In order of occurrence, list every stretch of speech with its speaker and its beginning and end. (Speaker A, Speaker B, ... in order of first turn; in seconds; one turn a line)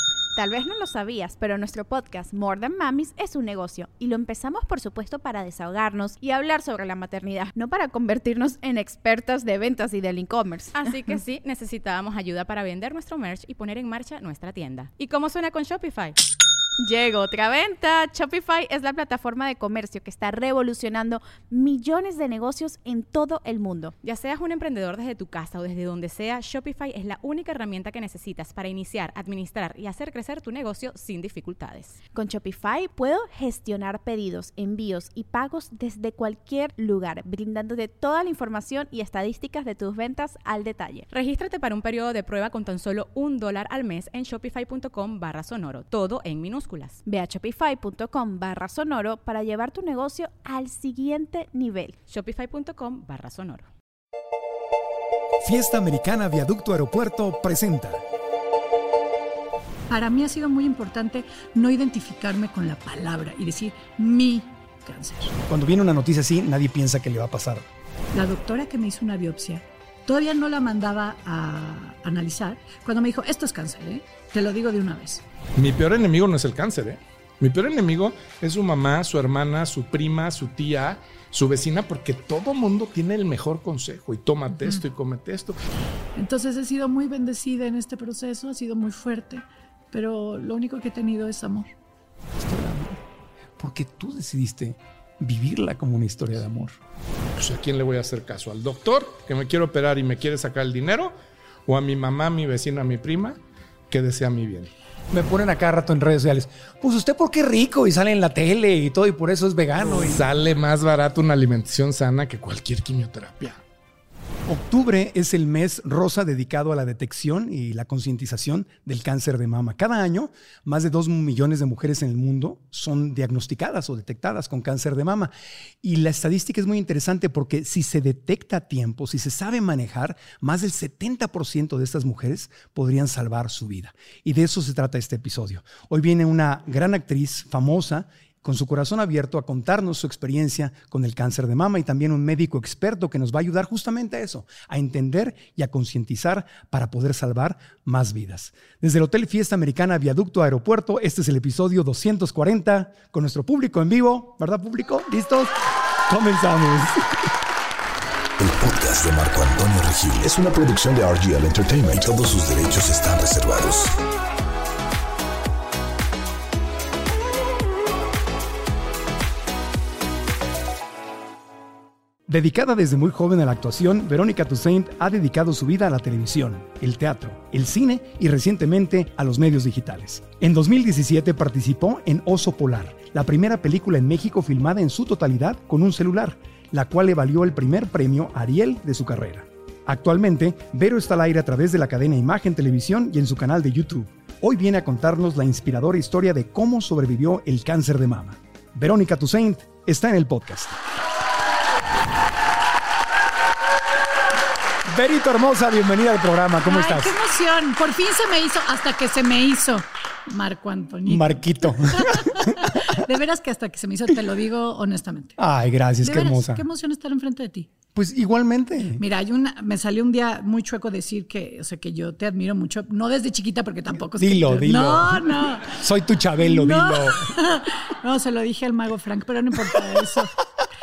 Speaker A: 0.3-11.1
Speaker B: 10.7-16.2
Speaker A: 16.8-23.9
Speaker B: 24.0-32.0
Speaker A: 32.1-41.1
Speaker B: 41.1-47.0
Speaker A: 47.0-52.0
Speaker B: 52.1-53.7
Speaker C: 55.4-58.0
Speaker D: 59.9-65.3
Speaker C: 65.5-67.7
Speaker D: 68.1-75.2
Speaker E: 75.6-85.6
Speaker D: 84.5-84.8
Speaker D: 86.2-91.7
Speaker C: 92.4-93.0
Speaker C: 93.6-96.7
Speaker E: 97.4-101.1
Speaker E: 101.7-103.4
Speaker E: 103.9-104.7
Speaker C: 105.1-110.2
Speaker E: 109.8-113.6
Speaker C: 114.5-125.3
Speaker C: 125.8-157.3
Speaker F: 158.4-163.9
Speaker C: 172.3-200.8
Speaker C: 204.9-207.1
Speaker D: 206.6-215.4
Speaker C: 211.1-213.0
Speaker C: 215.4-216.7
Speaker D: 216.0-217.7
Speaker C: 217.9-219.0
Speaker D: 219.0-225.8
Speaker C: 224.2-227.4
Speaker D: 226.4-230.3
Speaker C: 229.7-230.2